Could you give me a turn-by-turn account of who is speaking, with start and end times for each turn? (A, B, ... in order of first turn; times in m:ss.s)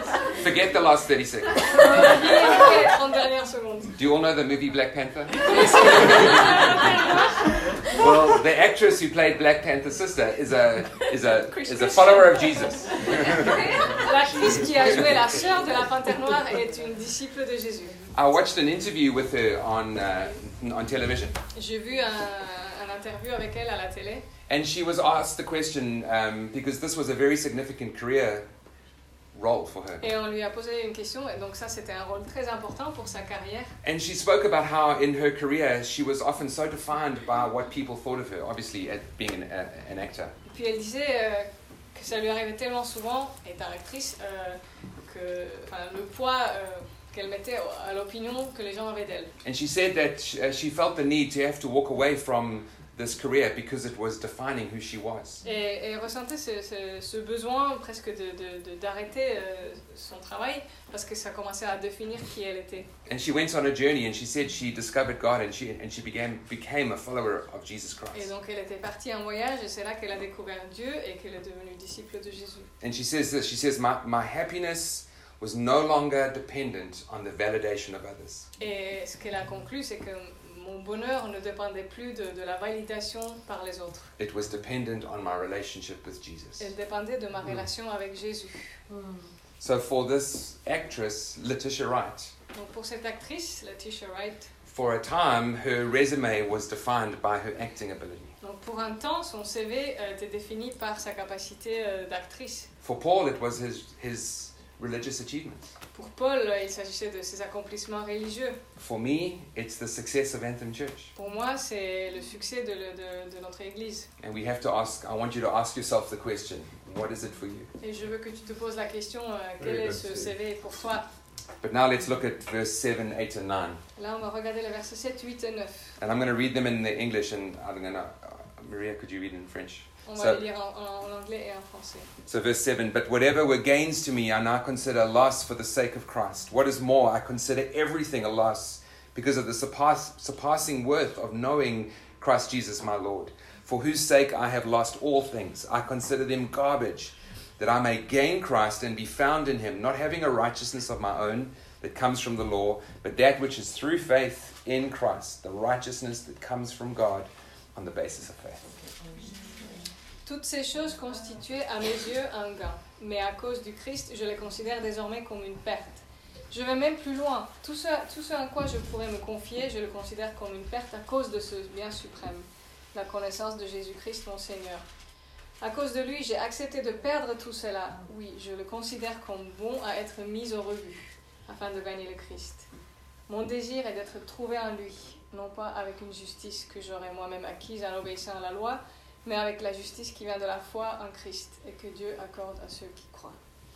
0:00.3-0:02.1 A
0:01.7-0:03.9 B
0:04.0-0:06.8 A
0:05.4-0:07.8 B
0:07.9-0:15.4 A
0:11.6-0:12.4 B
0:13.0-0:18.0 B
0:18.1-0:21.4 A
0:21.6-0:24.3 B
0:24.5-0:28.5 A
0:29.4-0:30.0 A
0:30.0-0:33.7 B
0:33.8-0:40.4 A
0:40.5-0:49.3 B
0:49.4-0:55.4 A
0:55.4-1:02.9 B
1:03.1-1:08.3 A
1:08.1-1:12.7 B
1:12.8-1:18.5 A
1:18.6-1:24.1 B
1:24.2-1:26.7 A
1:26.6-1:28.7 B
1:29.6-1:32.3 A
1:32.5-1:34.5 B
1:34.7-1:38.3 A
1:38.4-1:42.7 B
1:42.8-1:45.7 A
1:45.9-1:48.6 B
1:48.8-1:51.1 A
1:51.2-1:54.1 B
1:54.2-1:57.7 A
1:57.8-2:01.1 B
2:01.6-2:03.8 A
2:04.0-2:06.0 B
2:06.0-2:10.4 A
2:10.1-2:12.1 B
2:12.3-2:38.6 A
2:40.2-2:54.8 B
2:55.6-3:02.7 B
3:03.3-3:13.4 B